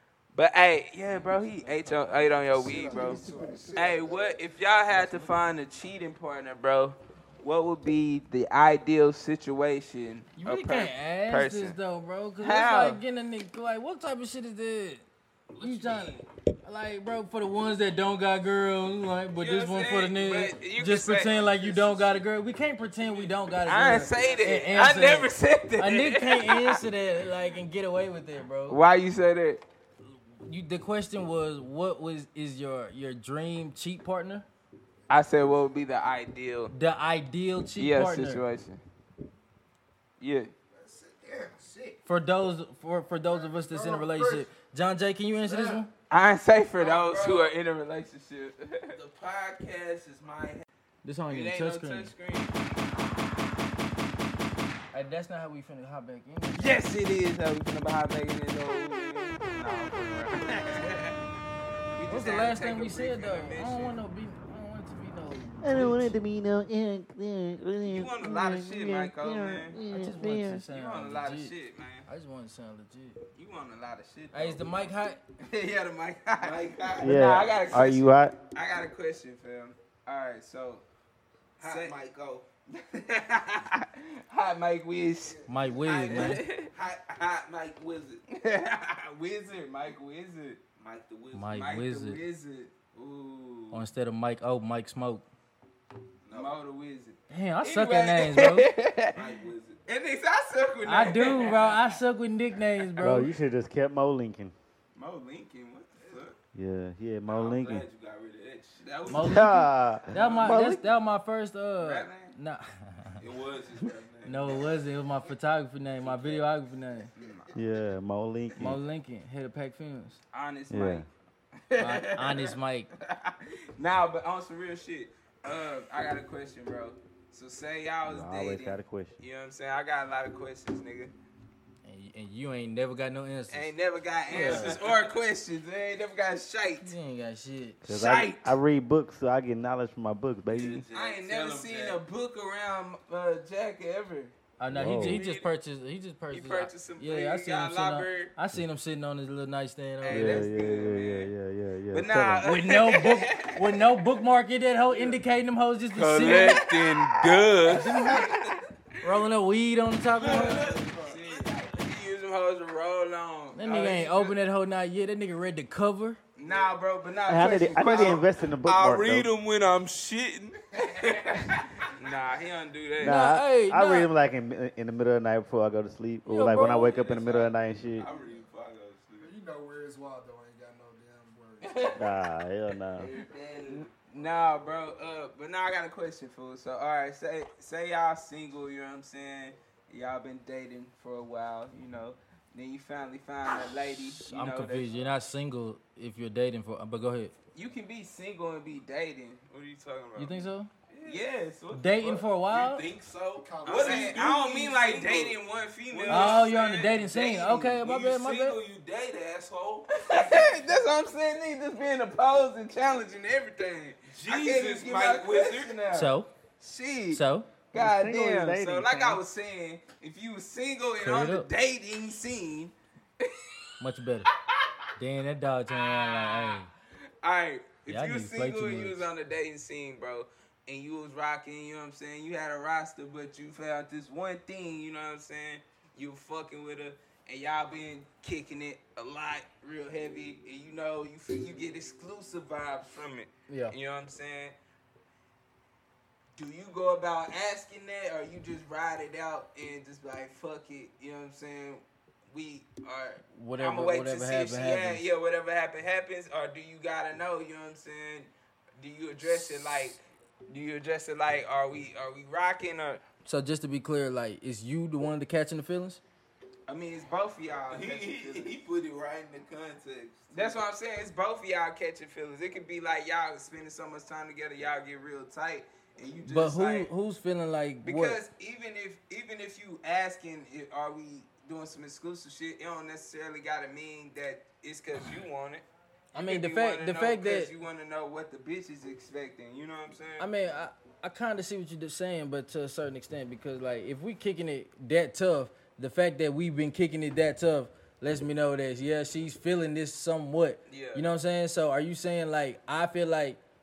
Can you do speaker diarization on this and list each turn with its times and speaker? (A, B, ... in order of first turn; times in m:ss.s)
0:00.3-0:11.8 A
0:02.0-0:04.4 B
0:02.7-0:03.1 C
0:10.4-0:15.0 D
0:12.4-0:13.0 A
0:15.6-0:16.2 C
0:15.6-0:28.8 D
0:19.4-0:22.2 A
0:23.6-0:26.8 A
0:24.1-0:24.5 C
0:28.7-0:29.6 A
0:30.4-0:34.5 D
0:35.1-0:36.7 A
0:36.7-0:38.4 D
0:37.8-0:38.8 A
0:40.2-0:40.5 A
0:40.7-0:42.0 B
0:42.1-0:45.9 D
0:43.3-0:44.5 B
0:45.4-0:45.8 B
0:46.1-0:49.0 A
0:46.8-0:47.5 C
0:48.9-0:50.7 C
0:51.0-0:52.1 D
0:51.3-0:52.9 A
0:54.9-0:56.8 D
0:56.6-1:01.1 A
1:01.9-1:04.0 A
1:02.1-1:06.1 D
1:05.6-1:10.6 E
1:07.8-1:09.8 A
1:09.9-1:11.6 D
1:10.7-1:12.1 A
1:12.1-1:13.2 D
1:13.4-1:20.8 A
1:14.3-1:15.2 D
1:16.4-1:17.4 C
1:17.0-1:18.4 E
1:21.6-1:22.0 A
1:21.6-1:22.5 C
1:22.7-1:26.7 A
1:25.3-1:25.6 B
1:25.5-1:26.4 D
1:26.0-1:28.2 C
1:28.3-1:30.6 A
1:30.8-1:31.6 C
1:31.3-1:32.2 D
1:31.5-1:33.8 A
1:33.7-1:35.2 D
1:36.2-1:36.6 C
1:36.3-1:39.2 A
1:37.3-1:38.7 D
1:39.1-1:39.8 C
1:39.9-1:42.0 A
1:40.9-1:43.3 D
1:43.0-1:44.5 E
1:45.0-1:46.4 A
1:46.5-1:47.8 E
1:47.3-1:48.9 C
1:48.8-1:49.5 A
1:49.1-1:53.2 D
1:49.1-1:50.9 E
1:50.2-1:50.4 A
1:51.8-1:52.4 A
1:53.2-1:54.7 C
1:54.2-1:57.1 D
1:56.0-1:56.4 A
1:57.2-1:57.5 A
1:57.6-1:58.8 E
1:58.6-2:00.2 D
2:00.3-2:01.1 A
2:00.7-2:01.1 E
2:01.7-2:11.1 A
2:01.8-2:02.9 D
2:08.0-2:09.2 E
2:11.8-2:13.7 D
2:13.5-2:16.9 A
2:14.3-2:14.8 D
2:14.3-2:15.2 C
2:16.8-2:17.8 D
2:17.8-2:20.8 E
2:17.9-2:18.6 A
2:20.5-2:22.0 C
2:20.9-2:25.5 A
2:24.6-2:30.5 D
2:24.7-2:25.2 E
2:26.3-2:28.3 A
2:30.0-2:31.3 A
2:30.1-2:32.5 E
2:31.9-2:33.8 A
2:32.4-2:36.7 D
2:36.0-2:38.4 C
2:36.2-2:38.6 A
2:37.6-2:38.3 D
2:39.0-2:40.7 D
2:40.1-2:41.5 C
2:40.2-2:44.4 A
2:43.5-2:46.2 D
2:46.4-2:48.3 A
2:47.3-2:49.3 E
2:47.7-2:51.6 C
2:50.9-2:53.3 A
2:53.0-2:58.1 E
2:53.0-2:54.1 D
2:56.3-2:57.0 D
2:56.9-2:59.3 C
2:58.0-2:58.4 B
2:59.2-3:02.0 B
3:01.6-3:02.1 A
3:02.0-3:03.1 E
3:03.0-3:03.9 C
3:03.9-3:15.0 A
3:14.2-3:17.3 D
3:17.5-3:20.5 A
3:20.2-3:20.7 D
3:20.9-3:21.2 C
3:21.0-3:22.2 A
3:21.7-3:22.8 D
3:22.0-3:30.5 C
3:23.4-3:24.3 B
3:23.6-3:27.7 A
3:26.1-3:28.6 D
3:29.9-3:35.8 A
3:34.0-3:36.1 C
3:35.9-3:36.3 D
3:36.6-3:43.3 A
3:37.1-3:37.5 D
3:37.7-3:39.2 E
3:41.0-3:41.5 D
3:43.8-3:44.3 D
3:45.0-3:46.7 D
3:45.8-3:46.6 A
3:47.2-4:04.6 A
3:47.9-3:49.1 D
4:03.5-4:03.7 D
4:06.4-4:23.0 A
4:13.3-4:15.0 D
4:23.2-4:26.0 D
4:26.7-4:28.5 A
4:27.7-4:30.6 C
4:30.3-4:36.9 A
4:36.3-4:38.2 D
4:37.8-4:45.6 A
4:46.1-4:47.5 D
4:46.2-4:50.3 A
4:50.2-5:03.4 D
5:00.7-5:01.1 A